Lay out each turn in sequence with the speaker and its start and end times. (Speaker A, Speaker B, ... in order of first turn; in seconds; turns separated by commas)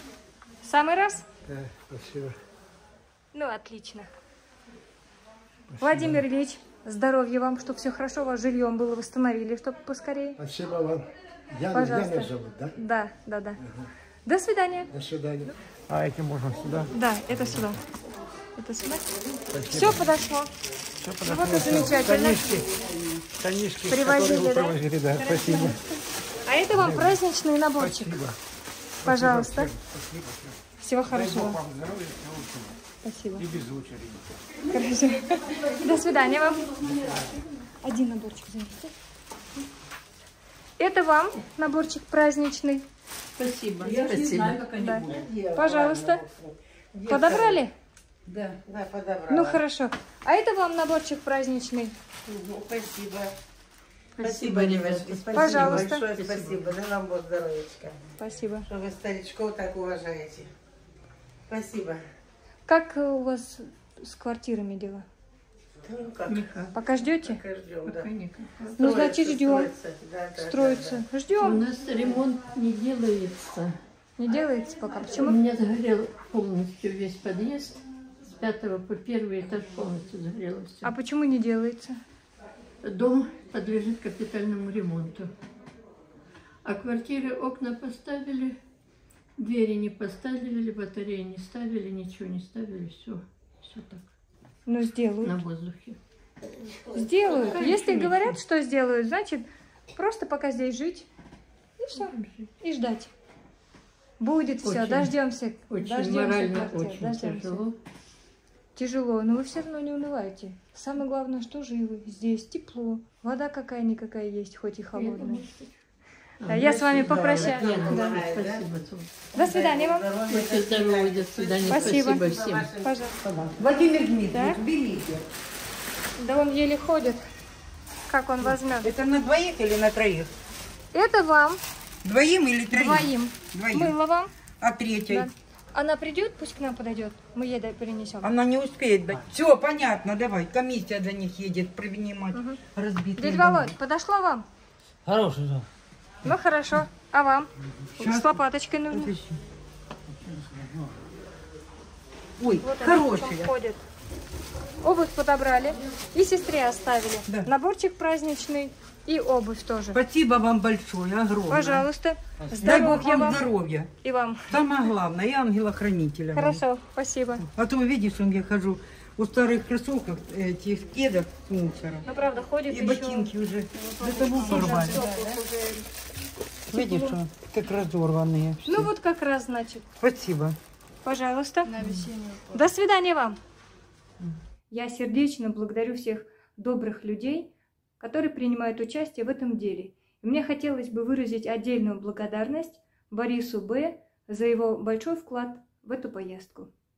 Speaker A: 0.6-1.2, Speaker B: 1.4-2.3, Speaker A: 3.3-4.1, Speaker B: 5.7-6.2, Speaker A: 5.8-10.4, Speaker B: 10.4-12.7, Speaker A: 11.7-13.6, Speaker B: 13.6-13.9, Speaker A: 14.2-14.9, Speaker B: 14.9-15.5, Speaker C: 15.9-16.8, Speaker A: 16.9-17.8, Speaker A: 18.6-19.0, Speaker B: 19.5-20.0, Speaker A: 19.6-20.5, Speaker C: 21.0-22.6, Speaker A: 21.2-22.6, Speaker B: 21.5-22.2, Speaker C: 23.4-25.7, Speaker A: 23.9-25.8, Speaker A: 26.4-28.2, Speaker A: 29.0-29.7, Speaker C: 29.4-29.6, Speaker A: 30.8-31.6, Speaker C: 31.1-32.7, Speaker A: 33.0-33.5, Speaker C: 33.4-34.2, Speaker A: 34.7-36.8, Speaker A: 37.6-38.9, Speaker A: 40.8-42.8, Speaker D: 43.4-44.9, Speaker A: 44.6-46.2, Speaker E: 45.0-47.6, Speaker A: 47.0-47.7, Speaker D: 48.3-48.5, Speaker E: 48.6-49.6, Speaker A: 49.3-51.9, Speaker E: 52.3-53.3, Speaker D: 54.2-56.7, Speaker E: 54.2-58.0, Speaker A: 55.3-56.0, Speaker A: 58.2-58.7, Speaker E: 58.7-60.5, Speaker E: 61.5-62.0, Speaker A: 62.6-65.0, Speaker E: 65.8-66.5, Speaker D: 66.2-66.7, Speaker A: 66.7-67.4, Speaker E: 67.2-68.1, Speaker D: 67.8-68.8, Speaker A: 68.8-69.7, Speaker E: 68.8-71.0, Speaker A: 70.3-71.6, Speaker D: 71.4-73.7, Speaker A: 74.2-75.4, Speaker D: 75.1-80.9, Speaker A: 80.8-82.0, Speaker D: 82.8-85.3, Speaker D: 86.6-88.5, Speaker D: 89.4-94.0, Speaker A: 94.7-95.4, Speaker D: 95.2-96.0, Speaker A: 96.9-101.1, Speaker E: 97.0-97.7, Speaker D: 97.5-98.3, Speaker A: 101.8-103.1, Speaker D: 101.9-102.5, Speaker A: 104.2-107.6, Speaker D: 104.6-105.1, Speaker D: 105.7-107.8, Speaker A: 108.8-115.4, Speaker D: 114.9-115.7, Speaker D: 116.4-119.2, Speaker A: 116.5-118.2, Speaker E: 116.5-118.6, Speaker A: 119.3-120.1, Speaker E: 119.3-123.2, Speaker D: 120.3-122.7, Speaker A: 121.7-122.3, Speaker A: 122.8-123.1, Speaker F: 123.4-125.2, Speaker A: 124.3-124.6, Speaker A: 126.2-127.2, Speaker A: 128.1-128.9, Speaker F: 128.8-130.3, Speaker A: 130.9-131.6, Speaker F: 132.0-133.9, Speaker A: 132.7-134.3, Speaker F: 134.6-135.0, Speaker A: 135.0-138.3, Speaker F: 138.2-143.7, Speaker A: 142.3-142.6, Speaker A: 143.2-144.4, Speaker A: 146.2-149.2, Speaker F: 149.0-149.4, Speaker F: 152.4-153.1, Speaker A: 152.6-153.8, Speaker A: 154.8-160.0, Speaker F: 159.9-161.8, Speaker A: 161.5-163.4, Speaker F: 162.5-163.9, Speaker C: 162.6-163.5, Speaker A: 164.0-164.6, Speaker F: 164.5-166.6, Speaker A: 166.3-167.4, Speaker F: 167.5-172.0, Speaker A: 172.0-173.3, Speaker F: 172.7-175.0, Speaker C: 173.8-175.0, Speaker A: 174.0-175.4, Speaker A: 176.7-177.2, Speaker F: 176.7-178.6, Speaker A: 178.6-179.8, Speaker F: 180.0-180.6, Speaker A: 181.0-183.4, Speaker A: 184.7-196.7